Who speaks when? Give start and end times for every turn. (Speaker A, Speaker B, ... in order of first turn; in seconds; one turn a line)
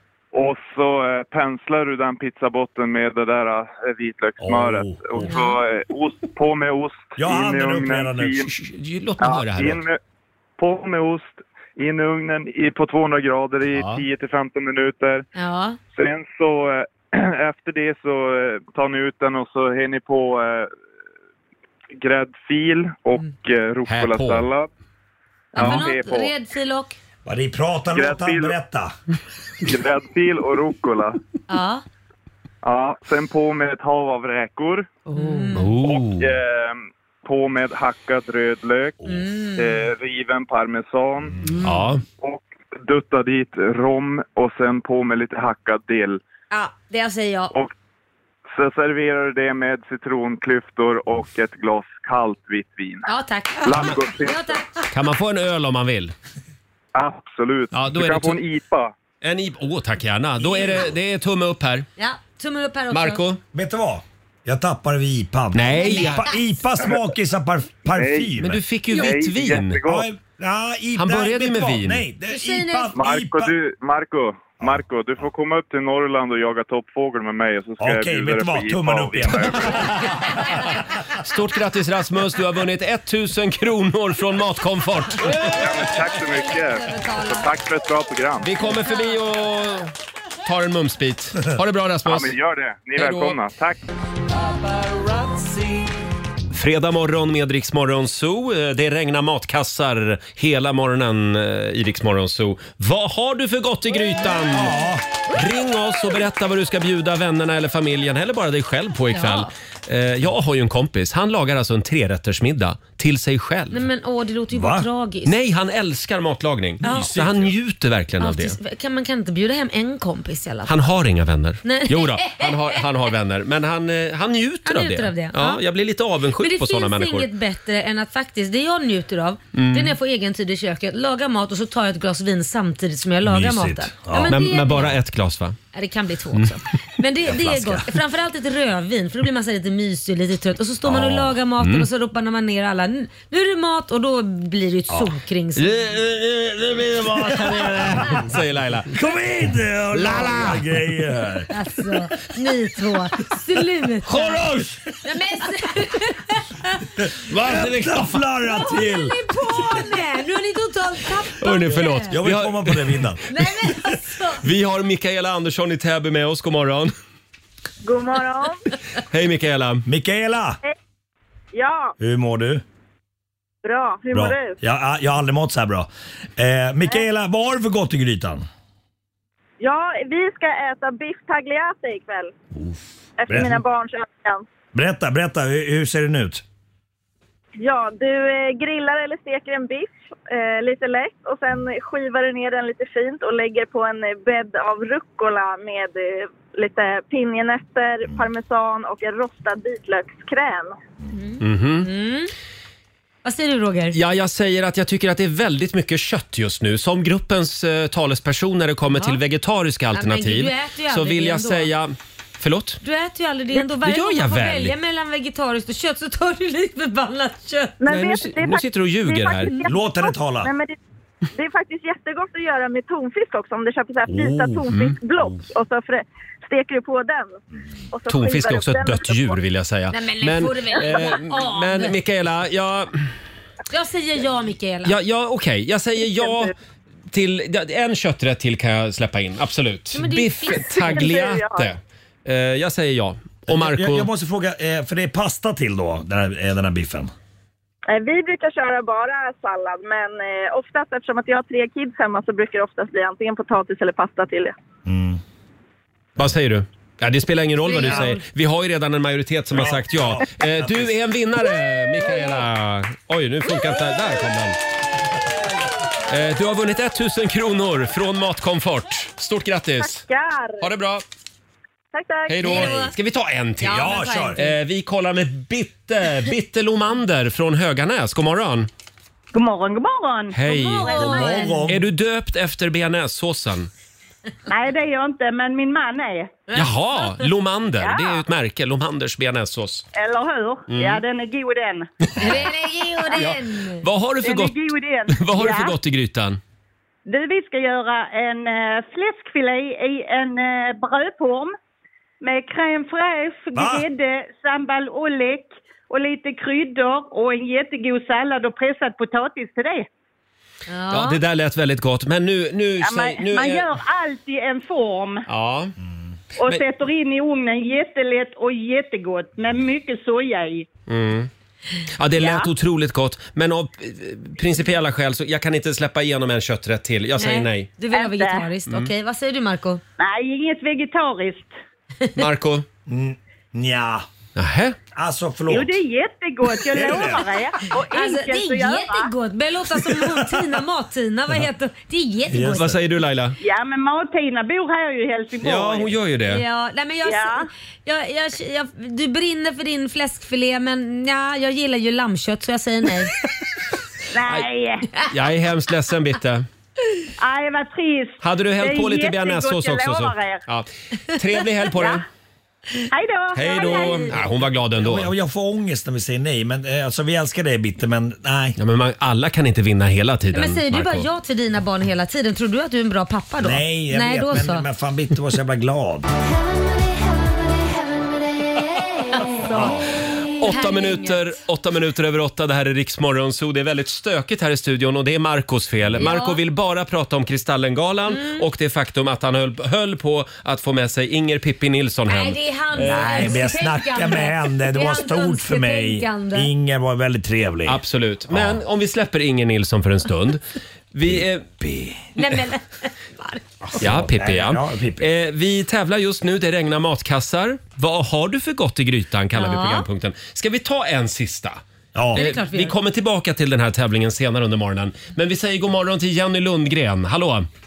Speaker A: 0.3-8.5
Speaker B: 4.4-5.3
Speaker C: 5.3-5.5
Speaker B: 7.2-8.4
Speaker D: 8.4-9.8
Speaker A: 9.2-10.0
Speaker A: 10.6-15.2
Speaker D: 13.7-14.0
Speaker C: 15.3-15.8
Speaker A: 15.9-20.7
Speaker A: 21.9-24.7
Speaker D: 23.9-24.5
Speaker A: 25.5-26.3
Speaker C: 25.6-27.0
Speaker B: 27.2-28.9
Speaker A: 27.9-28.5
Speaker A: 29.6-31.2
Speaker C: 31.5-31.8
Speaker A: 32.6-34.9
Speaker C: 35.1-35.7
Speaker D: 35.5-36.3
Speaker A: 35.8-39.0
Speaker C: 39.1-39.8
Speaker A: 39.5-41.4
Speaker D: 41.6-42.0
Speaker A: 42.2-46.2
Speaker C: 46.5-47.5
Speaker A: 48.5-53.1
Speaker C: 53.0-54.9
Speaker A: 53.6-54.6
Speaker D: 54.9-56.1
Speaker A: 56.9-58.9
Speaker D: 57.7-58.4
Speaker D: 59.2-61.9
Speaker B: 60.4-60.9
Speaker C: 62.0-63.2
Speaker D: 62.9-63.4
Speaker B: 63.5-68.6
Speaker D: 65.5-66.3
Speaker C: 65.8-66.4
Speaker A: 68.0-68.3
Speaker D: 68.3-69.8
Speaker A: 68.9-70.1
Speaker B: 69.8-73.5
Speaker D: 70.9-72.1
Speaker C: 72.3-73.0
Speaker A: 72.9-79.9
Speaker B: 77.8-79.9
Speaker D: 81.2-85.9
Speaker A: 85.3-88.6
Speaker C: 86.2-87.5
Speaker D: 88.4-89.9
Speaker C: 88.6-89.2
Speaker D: 90.4-92.3
Speaker A: 92.0-93.8
Speaker D: 93.0-93.3
Speaker D: 94.7-95.6
Speaker D: 96.5-113.8
Speaker B: 104.5-105.0
Speaker C: 109.1-109.5
Speaker C: 113.7-115.3
Speaker B: 114.5-114.9
Speaker D: 115.2-118.6
Speaker C: 116.8-117.2
Speaker C: 118.2-120.7
Speaker D: 120.7-127.3
Speaker C: 121.6-122.8
Speaker C: 124.6-125.6
Speaker C: 126.4-134.9
Speaker D: 129.5-129.9
Speaker B: 133.2-134.3
Speaker D: 134.2-135.6
Speaker C: 135.7-145.7
Speaker B: 137.2-137.9
Speaker D: 140.8-141.9
Speaker D: 145.6-149.0
Speaker B: 147.3-148.0
Speaker B: 148.9-151.5
Speaker D: 149.9-150.6
Speaker C: 151.5-154.4
Speaker B: 154.1-154.8
Speaker C: 155.0-156.8
Speaker B: 157.0-159.2
Speaker D: 157.3-158.2
Speaker C: 158.5-162.2
Speaker D: 161.4-163.1
Speaker B: 162.1-163.2
Speaker C: 163.3-164.4
Speaker D: 164.4-166.9
Speaker E: 167.8-168.6
Speaker D: 169.1-169.8
Speaker B: 169.8-170.6
Speaker E: 171.5-171.9
Speaker B: 172.0-172.6
Speaker E: 173.6-174.6
Speaker B: 174.1-178.4
Speaker E: 179.6-182.3
Speaker B: 182.6-183.6
Speaker E: 183.2-184.4
Speaker B: 184.7-186.4
Speaker E: 187.6-200.8
Speaker C: 201.1-202.3
Speaker D: 201.4-201.9
Speaker C: 203.2-204.0
Speaker D: 203.9-212.8
Speaker C: 208.9-209.2
Speaker C: 209.9-211.7
Speaker C: 212.8-217.8
Speaker D: 213.5-214.7
Speaker D: 217.8-219.7
Speaker E: 217.8-220.8
Speaker B: 219.7-220.5
Speaker E: 221.3-227.4
Speaker B: 224.1-224.6
Speaker D: 224.7-225.0
Speaker E: 227.9-229.4
Speaker D: 228.1-233.1
Speaker C: 229.9-231.9
Speaker C: 233.7-234.9
Speaker D: 234.8-236.5
Speaker D: 237.1-244.1
Speaker C: 239.9-241.2
Speaker E: 240.7-241.7
Speaker B: 243.5-247.1
Speaker E: 247.9-254.6
Speaker B: 254.8-255.2
Speaker D: 256.2-264.6
Speaker C: 257.7-258.2
Speaker B: 257.8-258.1
Speaker B: 259.5-260.9
Speaker D: 266.1-270.1
Speaker E: 269.8-270.6
Speaker D: 270.6-271.0
Speaker E: 271.9-272.6
Speaker D: 272.3-278.7
Speaker C: 272.4-272.9
Speaker C: 273.6-274.4
Speaker B: 273.6-274.4
Speaker F: 279.3-281.4
Speaker D: 280.3-283.7
Speaker C: 280.6-281.7
Speaker B: 280.9-281.9
Speaker F: 284.5-286.4
Speaker D: 286.5-289.8
Speaker F: 289.9-291.9
Speaker D: 290.7-291.0
Speaker D: 292.0-292.4
Speaker C: 292.2-293.8
Speaker D: 293.1-296.4
Speaker F: 294.2-295.6
Speaker F: 297.1-301.5
Speaker F: 302.2-309.9
Speaker B: 303.5-303.9
Speaker C: 310.7-311.2
Speaker D: 310.9-313.7
Speaker F: 312.8-315.2
Speaker D: 315.3-315.7
Speaker B: 315.8-316.1
Speaker F: 316.4-320.7
Speaker D: 320.9-321.3
Speaker D: 321.9-327.7
Speaker C: 327.2-329.8
Speaker F: 328.0-328.3
Speaker F: 330.0-331.6
Speaker D: 332.2-332.6
Speaker B: 332.9-334.0
Speaker D: 334.4-334.8
Speaker B: 334.9-335.8
Speaker F: 335.5-338.6
Speaker B: 336.7-337.3
Speaker E: 337.7-338.8
Speaker C: 337.9-342.7
Speaker B: 342.3-342.8
Speaker D: 342.5-343.4
Speaker F: 343.4-345.9
Speaker D: 345.4-346.4
Speaker C: 346.3-353.1
Speaker F: 354.1-354.9
Speaker D: 355.0-356.4
Speaker F: 357.2-360.4
Speaker D: 358.2-362.0
Speaker F: 362.9-363.9
Speaker D: 363.3-365.1
Speaker C: 363.7-364.1
Speaker B: 364.8-368.6
Speaker D: 368.6-371.1
Speaker C: 370.3-374.6
Speaker B: 373.4-376.0
Speaker B: 379.5-379.8
Speaker D: 380.3-393.5
Speaker C: 380.4-381.3
Speaker C: 386.0-386.4
Speaker C: 388.1-388.4
Speaker C: 392.1-396.5
Speaker B: 392.8-398.6
Speaker D: 397.6-401.4
Speaker B: 401.0-402.0
Speaker C: 402.1-403.8
Speaker D: 403.8-417.5
Speaker B: 403.8-405.1
Speaker C: 409.3-409.9
Speaker B: 411.9-412.2
Speaker C: 412.1-412.7